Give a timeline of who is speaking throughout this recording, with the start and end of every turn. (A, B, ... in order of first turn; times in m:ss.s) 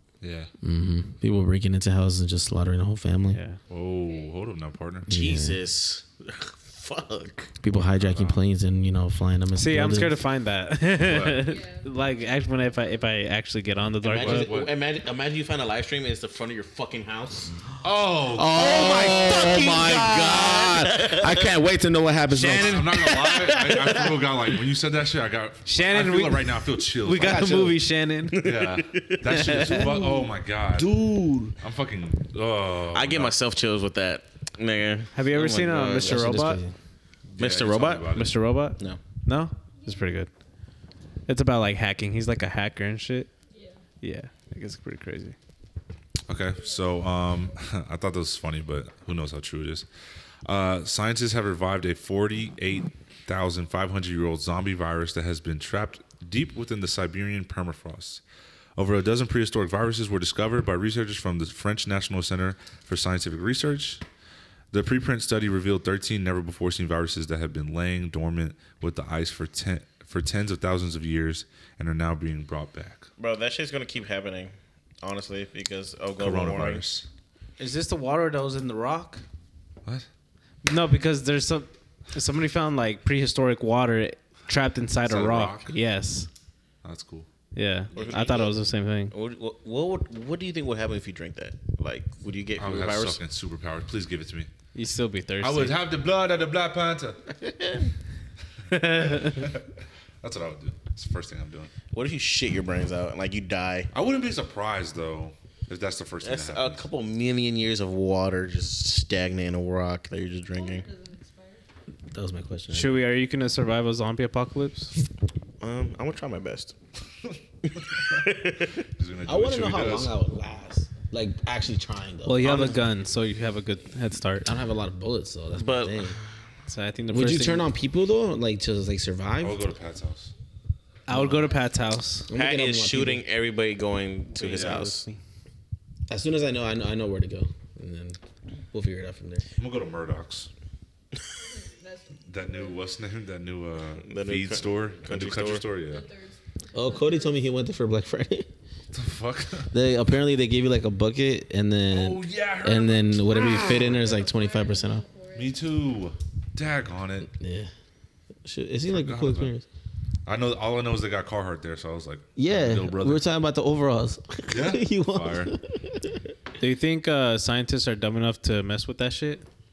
0:00.2-0:00.5 A
0:00.6-0:03.4 B
0:03.3-0:03.6 C
0:03.7-0:05.1 A
0:04.0-0:04.4 D
0:05.1-0:05.6 B
0:05.1-0:07.5 E
0:07.6-0:10.2 B
0:07.8-0:08.4 A
0:09.6-0:14.5 C
0:11.0-0:11.5 A
0:11.4-0:11.9 D
0:14.0-0:17.5 E
0:14.2-0:14.7 A
0:17.8-0:18.7 A
0:18.3-0:24.0 B
0:18.6-0:21.5 E
0:22.3-0:23.2 C
0:22.5-0:27.6 A
0:25.7-0:28.5 C
0:27.1-0:27.8 B
0:28.3-0:29.9 E
0:28.4-0:31.0 A
0:29.3-0:30.0 C
0:30.7-0:31.6 B
0:31.6-0:33.4 A
0:32.9-0:36.2 E
0:35.1-0:36.6 C
0:36.0-0:36.7 B
0:37.3-0:38.4 A
0:37.4-0:38.1 E
0:38.1-0:40.3 C
0:39.8-0:40.2 D
0:41.3-0:43.3 C
0:43.5-0:43.8 D
0:44.0-0:45.4 C
0:46.3-0:49.9 A
0:50.4-0:58.2 A
0:58.8-1:04.0 A
1:04.7-1:13.1 A
1:13.2-1:16.8 E
1:16.2-1:17.1 A
1:17.6-1:19.2 C
1:20.6-1:26.3 C
1:25.0-1:25.8 A
1:26.8-1:27.3 A
1:27.5-1:29.1 C
1:27.9-1:28.6 E
1:29.1-1:33.2 E
1:32.6-1:34.5 A
1:34.7-1:35.8 C
1:35.4-1:37.2 A
1:37.4-1:37.8 E
1:38.7-1:41.7 A
1:38.7-1:39.5 C
1:41.9-1:43.9 E
1:43.9-1:46.9 A
1:46.2-1:50.9 E
1:50.5-1:51.6 D
1:52.1-1:53.0 B
1:52.7-1:54.9 C
1:55.6-1:56.8 E
1:57.9-1:58.3 A
1:58.0-1:58.8 E
1:58.8-2:00.2 A
1:59.3-2:02.8 B
2:02.2-2:04.5 C
2:02.4-2:02.8 E
2:04.4-2:06.2 B
2:05.6-2:06.2 E
2:06.7-2:07.7 C
2:07.1-2:09.6 B
2:09.4-2:10.3 A
2:11.1-2:12.3 C
2:11.1-2:11.6 B
2:12.3-2:13.2 B
2:12.3-2:15.1 E
2:14.4-2:14.9 A
2:14.5-2:14.9 C
2:16.1-2:18.2 B
2:18.7-2:19.5 B
2:19.6-2:20.5 A
2:21.4-2:22.8 D
2:22.3-2:26.1 A
2:24.0-2:25.7 E
2:25.8-2:27.4 D
2:26.7-2:28.5 B
2:28.9-2:29.7 A
2:29.7-2:35.0 B
2:31.9-2:34.0 A
2:33.4-2:35.6 D
2:35.3-2:37.3 A
2:37.3-2:37.7 B
2:38.4-2:39.6 B
2:38.9-2:39.5 A
2:40.3-2:43.2 A
2:42.4-2:46.2 B
2:44.5-2:45.6 A
2:46.6-2:49.4 C